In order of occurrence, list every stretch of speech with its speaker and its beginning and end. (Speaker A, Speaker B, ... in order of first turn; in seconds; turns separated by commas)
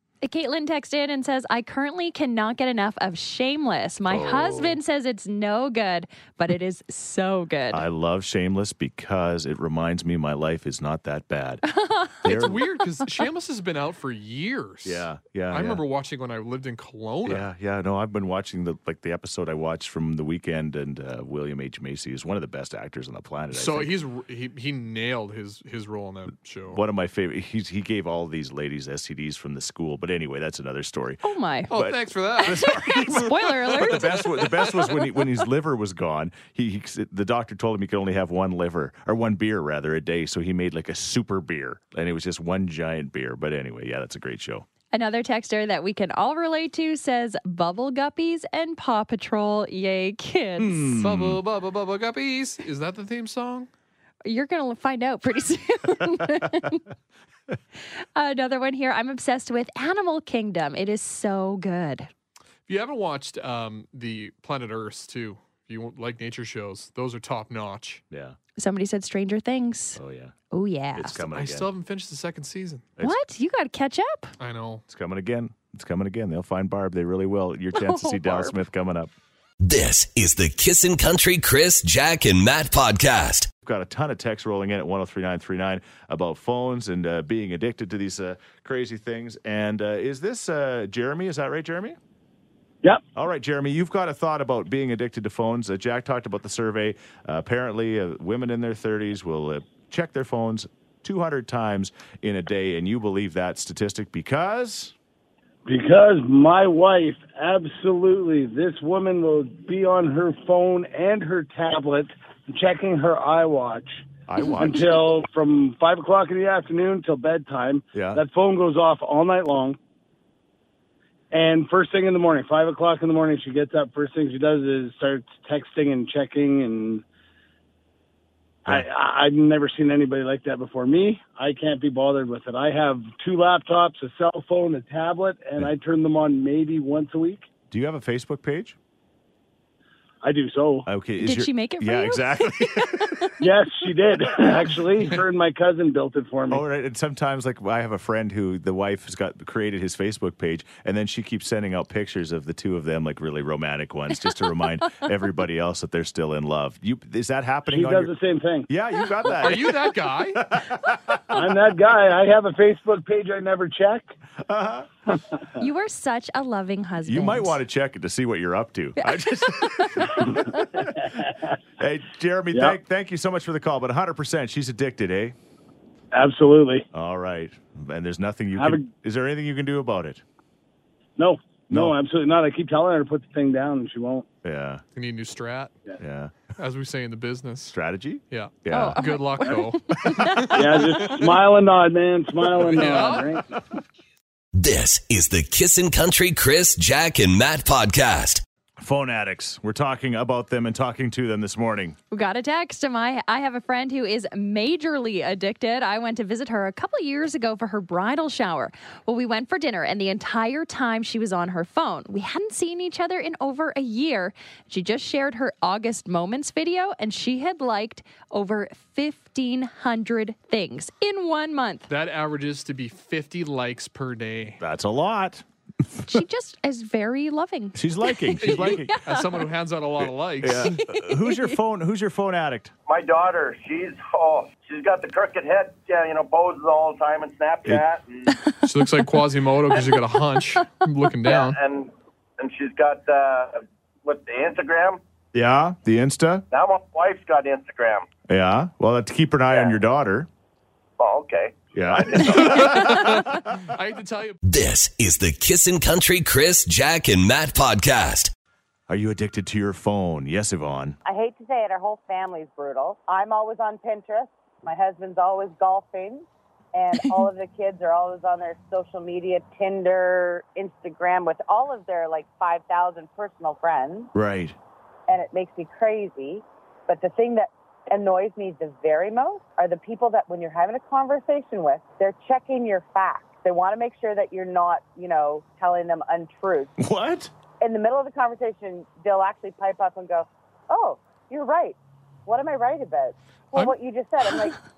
Speaker A: 0.2-7.8, Speaker B: 4.1-4.8, Speaker B: 7.7-11.6, Speaker A: 11.7-12.4, Speaker B: 12.2-12.6, Speaker C: 12.2-17.5, Speaker B: 14.8-15.8, Speaker B: 17.2-24.0, Speaker C: 23.5-26.8, Speaker B: 26.7-44.7, Speaker A: 31.2-31.7, Speaker C: 31.7-32.9, Speaker A: 32.4-34.4, Speaker C: 34.0-34.6, Speaker A: 44.9-50.9, Speaker B: 50.6-51.4, Speaker C: 50.9-53.7, Speaker A: 54.2-56.8, Speaker A: 58.1-62.1, Speaker C: 62.7-68.0, Speaker B: 68.1-68.4, Speaker A: 68.6-70.0, Speaker B: 70.0-70.3, Speaker A: 70.5-71.2, Speaker B: 71.0-71.7, Speaker C: 71.3-72.9, Speaker A: 73.0-74.3, Speaker C: 74.4-74.8, Speaker B: 74.9-79.1, Speaker A: 77.7-78.6, Speaker D: 79.6-83.5, Speaker B: 83.6-92.0, Speaker B: 93.2-104.9, Speaker E: 105.7-114.0, Speaker B: 114.3-114.9, Speaker E: 114.6-119.8, Speaker B: 117.9-118.2, Speaker E: 121.3-127.0, Speaker E: 128.7-137.4, Speaker B: 137.7-138.8, Speaker E: 140.2-140.9, Speaker B: 140.9-143.3, Speaker A: 141.2-143.5, Speaker E: 143.4-146.6, Speaker B: 146.5-158.1, Speaker E: 157.7-158.7, Speaker B: 158.7-161.4, Speaker C: 159.3-160.4, Speaker E: 161.3-164.1, Speaker B: 164.5-164.9, Speaker A: 165.6-167.6, Speaker B: 167.0-170.4, Speaker A: 169.0-170.7, Speaker E: 171.0-171.3, Speaker B: 171.8-175.4, Speaker E: 172.5-172.8, Speaker E: 176.1-176.9, Speaker B: 176.9-180.2, Speaker E: 178.6-178.9, Speaker E: 181.2-184.3, Speaker B: 181.7-181.9, Speaker B: 184.4-184.8, Speaker C: 184.9-185.8, Speaker B: 186.0-186.4, Speaker C: 186.6-187.8, Speaker B: 187.7-189.1, Speaker C: 188.3-191.4, Speaker A: 188.7-191.1, Speaker E: 190.6-193.5, Speaker C: 192.5-193.4, Speaker D: 194.6-198.4, Speaker B: 198.8-202.0, Speaker A: 202.1-221.9, Speaker C: 221.9-224.6, Speaker B: 224.6-225.4, Speaker A: 226.0-229.2, Speaker B: 227.8-229.0, Speaker C: 228.4-230.8, Speaker B: 230.0-232.7, Speaker A: 230.6-231.6, Speaker F: 232.9-238.3, Speaker C: 238.6-241.6, Speaker F: 241.3-245.0, Speaker B: 245.3-246.4, Speaker F: 246.5-248.1, Speaker B: 248.3-250.3, Speaker F: 249.5-249.8, Speaker F: 251.0-253.0, Speaker B: 251.7-253.5, Speaker C: 252.3-254.4, Speaker D: 254.4-258.3, Speaker B: 258.9-261.0, Speaker G: 261.1-274.1, Speaker B: 274.1-274.6, Speaker G: 275.1-286.7, Speaker B: 286.8-287.3, Speaker G: 287.6-294.6